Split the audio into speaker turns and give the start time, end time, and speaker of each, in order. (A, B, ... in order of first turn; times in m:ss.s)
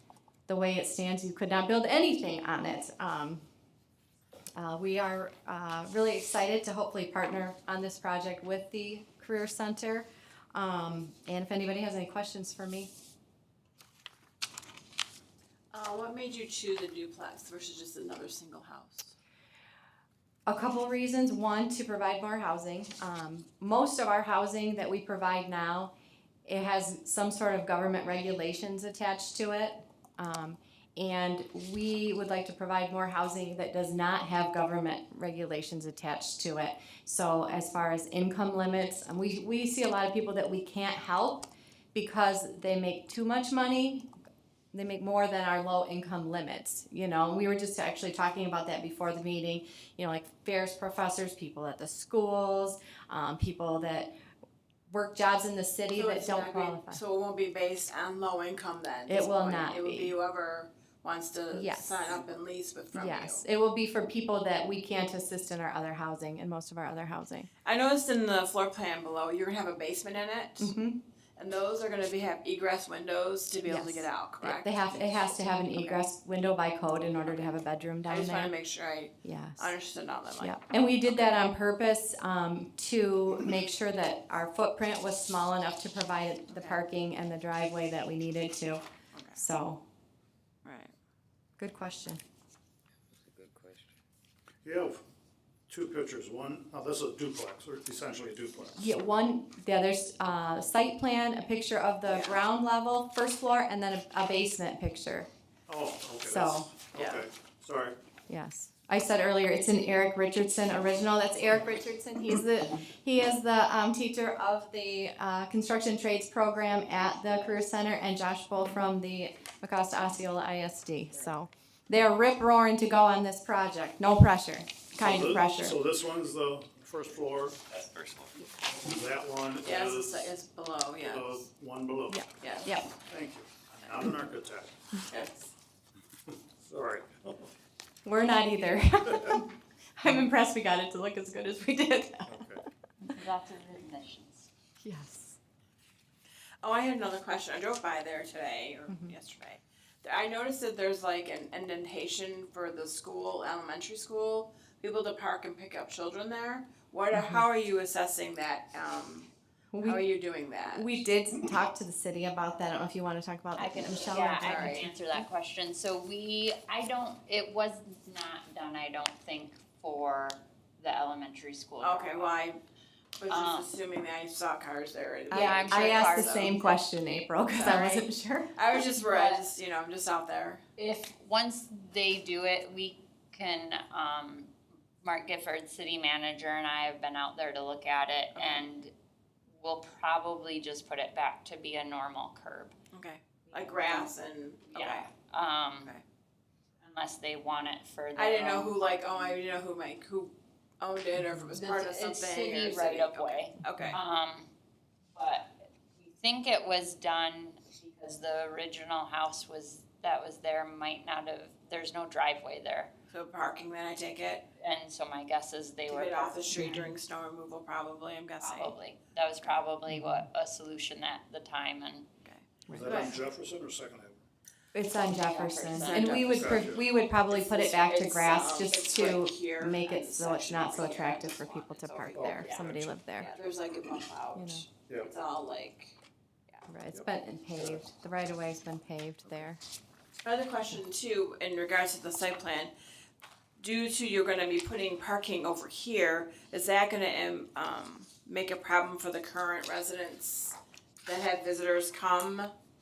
0:00.5-0:03.4 A
0:04.6-0:12.9 A
0:15.7-0:19.2 B
0:20.5-0:25.9 A
0:26.5-0:44.1 A
0:44.7-0:54.1 A
0:54.9-0:57.0 A
0:55.9-1:03.4 B
0:59.1-1:00.1 A
1:01.5-1:02.2 A
1:02.9-1:07.5 A
1:07.6-1:10.7 B
1:10.6-1:11.0 A
1:11.4-1:16.0 B
1:13.6-1:18.5 A
1:17.3-1:21.4 B
1:19.2-1:19.7 A
1:20.4-1:28.8 A
1:26.5-1:26.8 B
1:29.1-1:29.4 B
1:29.4-1:29.8 A
1:30.6-1:30.9 B
1:31.6-1:32.2 A
1:34.6-1:35.0 C
1:35.7-1:38.8 C
1:38.8-1:45.3 A
1:42.1-1:42.4 B
1:45.7-1:48.0 C
1:46.2-1:46.7 A
1:47.0-1:47.2 B
1:48.3-2:05.8 A
2:05.0-2:07.6 C
2:07.7-2:08.4 B
2:08.7-2:10.3 C
2:09.6-2:11.5 B
2:11.0-2:12.3 C
2:12.1-2:13.0 A
2:12.4-2:12.7 B
2:13.0-2:14.9 C
2:15.1-2:15.5 B
2:16.3-2:17.5 C
2:18.0-2:22.4 A
2:22.3-2:22.6 C
2:23.0-2:24.5 D
2:24.8-2:25.4 A
2:26.6-2:39.3 B
2:28.9-2:29.1 A
2:37.1-2:37.4 A
2:39.7-2:40.0 A
2:39.8-2:41.0 B
2:40.7-2:44.9 A
2:43.6-2:52.4 D
2:44.3-2:44.9 B
2:51.8-2:52.6 B
2:53.2-2:56.6 B
2:53.3-2:53.7 D
2:55.3-2:56.8 D
2:55.3-2:58.5 A
2:57.5-3:00.6 B
2:57.6-2:57.9 D
2:59.0-2:59.4 D
3:00.8-3:04.5 D
3:05.0-3:08.9 D
3:08.4-3:08.7 B
3:09.5-3:12.8 D
3:12.9-3:15.1 B
3:13.5-3:14.1 D
3:14.7-3:16.0 D
3:16.8-3:19.4 D
3:18.2-3:24.0 B
3:21.5-3:24.5 D
3:25.2-3:32.9 D
3:33.1-3:34.5 B
3:34.6-3:36.8 D
3:35.9-3:38.8 B
3:38.4-3:42.1 D
3:42.2-3:43.1 B
3:42.7-3:43.1 A
3:42.7-3:44.2 C
3:44.7-3:53.3 A
3:45.0-3:46.2 D
3:45.7-3:46.6 B
3:46.2-3:46.9 C
3:47.3-3:52.6 B
3:52.2-3:53.0 C
3:53.2-3:56.0 B
3:54.3-3:54.7 A
3:56.7-3:59.6 A
3:56.9-3:57.8 C
4:00.2-4:02.7 B
4:03.6-4:12.5 B